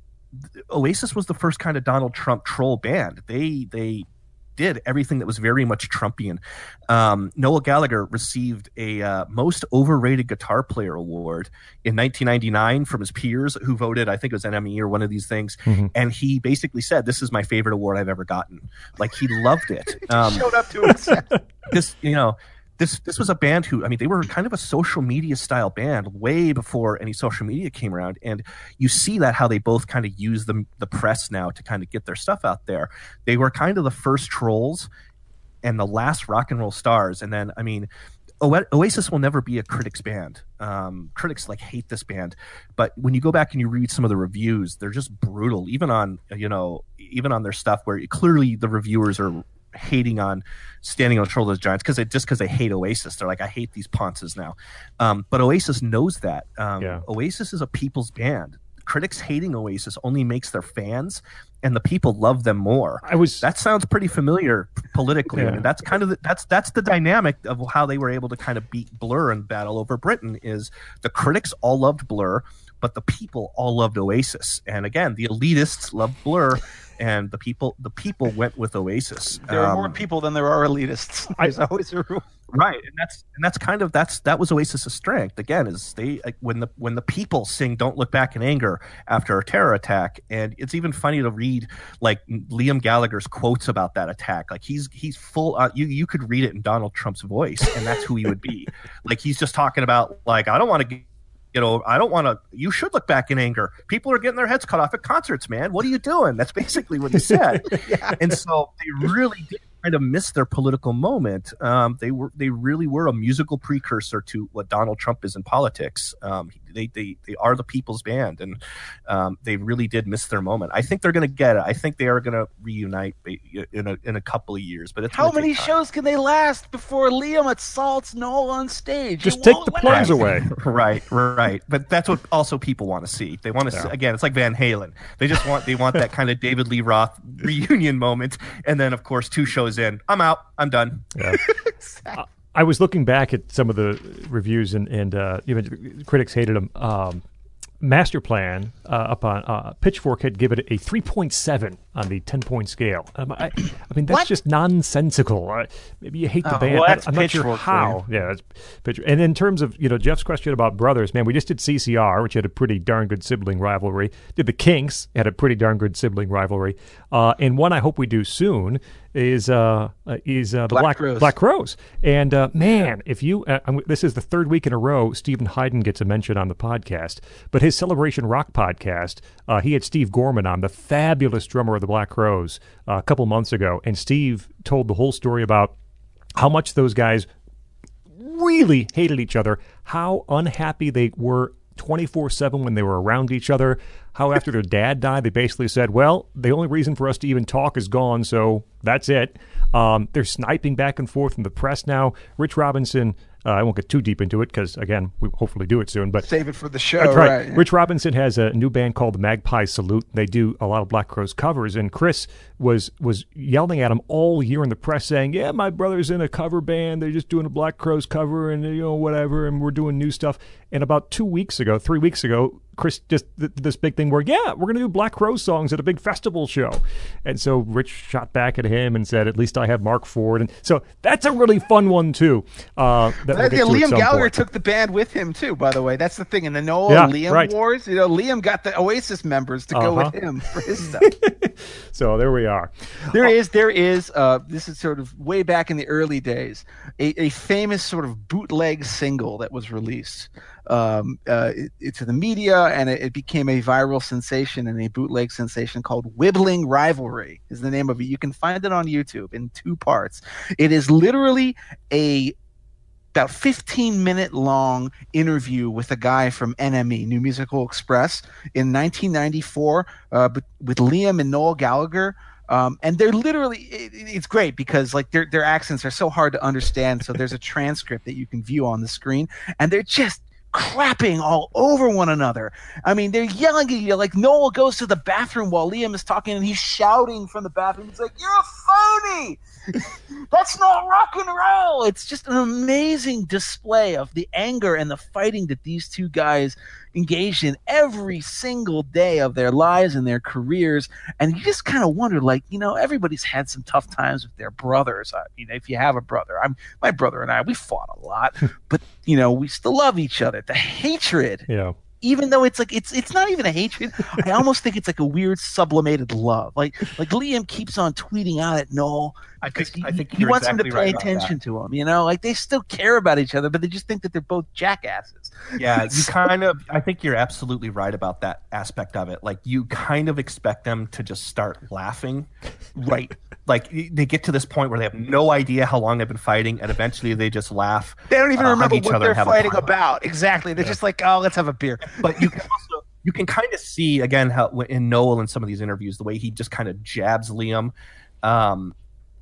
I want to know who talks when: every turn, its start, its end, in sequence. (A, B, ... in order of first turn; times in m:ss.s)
0:00.4-0:20.5 A
0:20.1-0:21.3 B
0:21.7-0:34.9 A
0:35.6-0:37.9 A
0:38.4-1:20.0 A
1:03.0-1:03.4 C
1:05.3-1:05.7 C
1:19.4-1:22.2 B
1:22.5-2:05.7 A
1:47.7-1:48.2 B
2:05.1-2:10.3 B
2:09.2-2:10.5 C
2:09.8-2:21.1 A
2:21.4-2:22.2 B
2:22.1-2:27.2 C
2:27.8-3:05.7 C
2:36.4-2:38.0 B
2:50.7-2:51.3 B
3:06.4-3:07.2 C
3:08.1-3:26.3 C
3:26.2-3:27.6 B
3:27.0-3:54.3 C
3:53.3-4:01.1 B
3:56.9-3:57.5 C
3:59.7-4:00.1 C
4:00.8-4:03.3 C
4:03.1-4:22.3 B
4:23.1-5:11.4 B
5:11.5-5:11.7 C
5:12.0-5:26.1 B
5:19.4-5:21.3 A
5:25.6-5:32.3 A
5:32.8-5:33.2 B
5:33.4-5:39.7 A
5:38.1-5:42.4 B
5:42.0-5:48.7 A